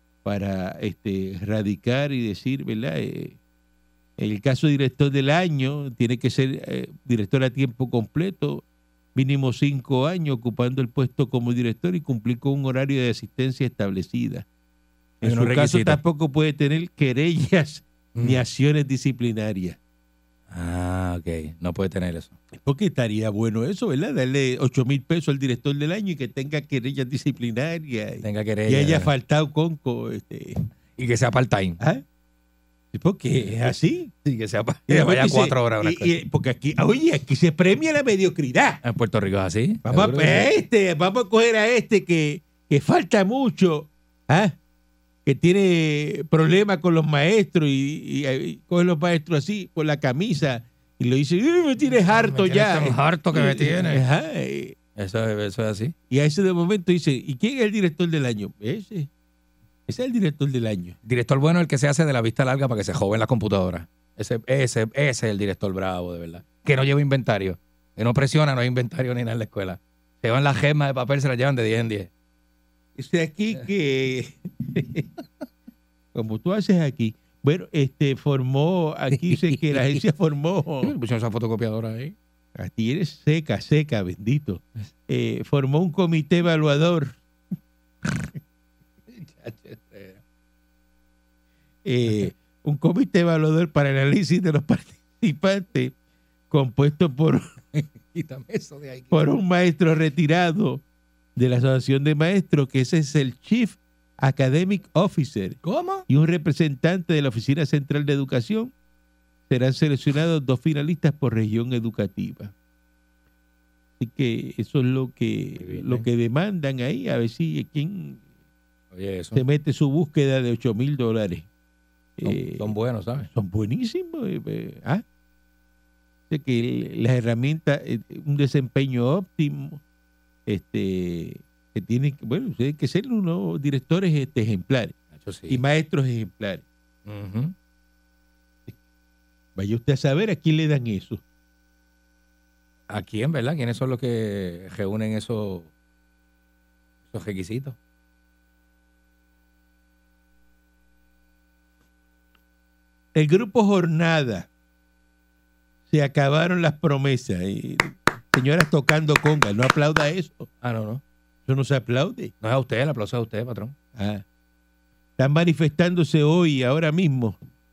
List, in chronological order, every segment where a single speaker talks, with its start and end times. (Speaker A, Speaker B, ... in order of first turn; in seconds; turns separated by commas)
Speaker A: 0.2-3.4, Speaker A: 4.2-14.4, Speaker A: 15.2-19.8, Speaker B: 15.2-16.0, Speaker B: 18.1-18.4, Speaker B: 20.5-22.4, Speaker A: 22.5-30.6, Speaker B: 28.2-29.1, Speaker B: 31.0-31.8, Speaker A: 32.9-34.1, Speaker B: 34.2-36.1, Speaker A: 34.9-38.8, Speaker B: 38.8-40.5, Speaker A: 39.9-44.6, Speaker A: 45.2-54.8, Speaker B: 52.1-54.0, Speaker B: 55.0-55.9, Speaker A: 56.1-59.1, Speaker A: 59.9-61.0, Speaker B: 61.0-72.1, Speaker A: 73.0-75.1, Speaker A: 76.1-80.9, Speaker B: 79.1-80.0, Speaker B: 80.8-82.2, Speaker A: 82.6-87.2, Speaker B: 89.1-90.2, Speaker A: 91.8-95.9, Speaker A: 96.5-97.5, Speaker B: 97.7-99.2, Speaker A: 99.1-100.8, Speaker A: 101.4-108.7, Speaker B: 105.6-106.1, Speaker A: 109.5-112.5, Speaker A: 114.0-118.2, Speaker B: 115.6-116.1, Speaker B: 118.9-119.4, Speaker A: 119.3-121.5, Speaker A: 122.2-122.7, Speaker B: 122.2-123.3, Speaker A: 123.3-125.0, Speaker A: 126.3-129.8, Speaker A: 130.5-134.9, Speaker B: 135.1-135.6, Speaker A: 135.5-136.6, Speaker B: 137.1-137.5, Speaker A: 139.6-141.2, Speaker B: 142.9-145.7, Speaker B: 147.1-147.8, Speaker A: 153.1-154.5, Speaker A: 155.9-160.5, Speaker B: 160.6-161.0, Speaker A: 161.5-162.3, Speaker B: 162.4-163.8, Speaker A: 163.9-164.2, Speaker A: 165.2-167.4